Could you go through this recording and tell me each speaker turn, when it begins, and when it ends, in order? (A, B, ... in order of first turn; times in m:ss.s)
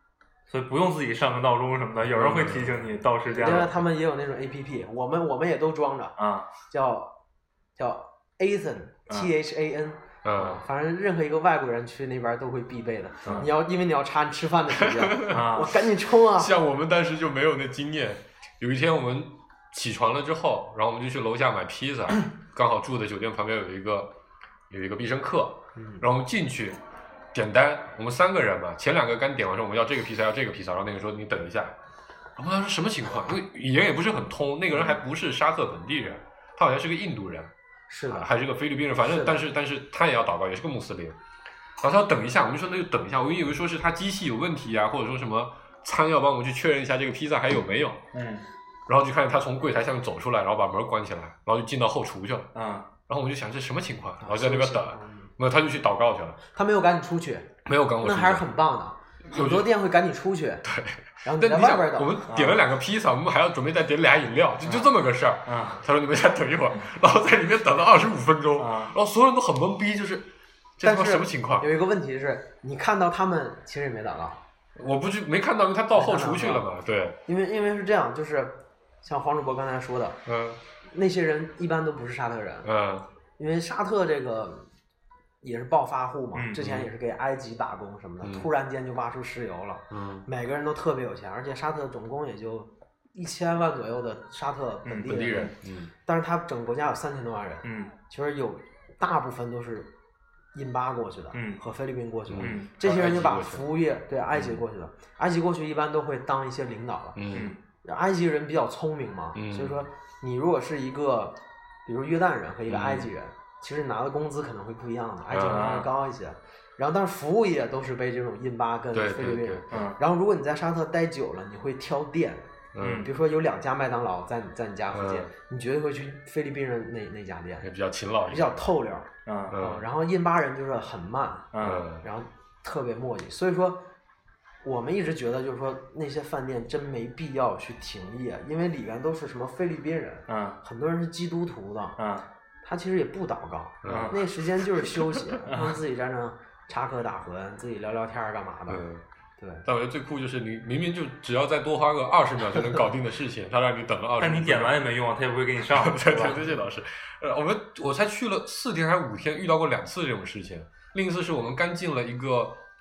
0:00.5-0:03.8 A
0:02.1-0:02.8 B
0:03.3-0:06.1 C
0:06.2-0:06.5 A
0:06.7-0:07.1 C
0:07.8-0:16.5 C
0:10.2-0:10.6 B
0:14.7-0:15.5 B
0:15.3-0:15.8 A
0:16.3-0:24.1 B
0:24.7-0:26.8 B
0:25.7-0:26.0 C
0:27.3-0:31.8 B
0:32.4-0:37.5 B
0:37.9-0:38.3 C
0:38.1-0:41.2 B
0:39.0-0:39.4 C
0:41.8-0:48.0 B
0:48.1-0:48.4 A
0:48.9-0:52.5 B
0:52.5-0:52.9 A
0:53.1-0:56.4 B
0:54.2-0:55.3 C
0:56.5-1:00.6 C
0:57.6-0:58.5 B
0:59.3-0:59.7 B
1:00.6-1:11.7 B
1:01.2-1:02.2 C
1:02.3-1:02.6 A
1:04.6-1:04.9 A
1:05.4-1:05.8 A
1:08.6-1:08.9 A
1:10.8-1:14.4 C
1:14.8-1:17.2 B
1:15.9-1:16.6 C
1:17.2-1:20.2 C
1:20.2-1:20.6 B
1:20.9-1:22.7 C
1:22.6-1:23.1 B
1:23.4-1:24.7 C
1:25.4-1:35.5 C
1:26.3-1:26.6 A
1:26.6-1:26.9 B
1:28.2-1:28.5 B
1:29.9-1:30.3 B
1:34.8-1:35.4 A
1:35.0-1:35.9 B
1:36.0-1:39.9 C
1:37.6-1:37.9 A
1:40.5-1:47.2 C
1:41.3-1:41.6 A
1:42.3-1:43.6 B
1:42.4-1:42.7 A
1:44.3-1:44.6 B
1:47.1-1:47.5 B
1:47.3-1:47.6 A
1:47.8-2:07.7 C
1:49.3-1:49.8 B
1:52.7-1:53.1 B
1:55.3-1:55.8 B
1:55.4-1:55.9 A
1:58.9-1:59.7 B
1:59.7-2:00.0 A
2:02.7-2:03.1 B
2:02.8-2:03.1 A
2:04.9-2:05.3 B
2:07.6-2:08.7 B
2:08.3-2:13.8 C
2:09.2-2:09.6 A
2:09.5-2:09.8 B
2:11.5-2:11.8 A
2:11.6-2:12.0 B
2:14.6-2:22.0 C
2:20.3-2:20.6 A
2:22.0-2:22.3 A
2:22.6-2:28.8 C
2:23.8-2:24.3 B
2:23.9-2:24.2 A
2:25.5-2:25.8 A
2:28.7-2:29.0 B
2:29.4-2:29.6 C
2:29.6-2:34.9 B
2:34.2-2:36.4 A
2:35.7-2:42.6 B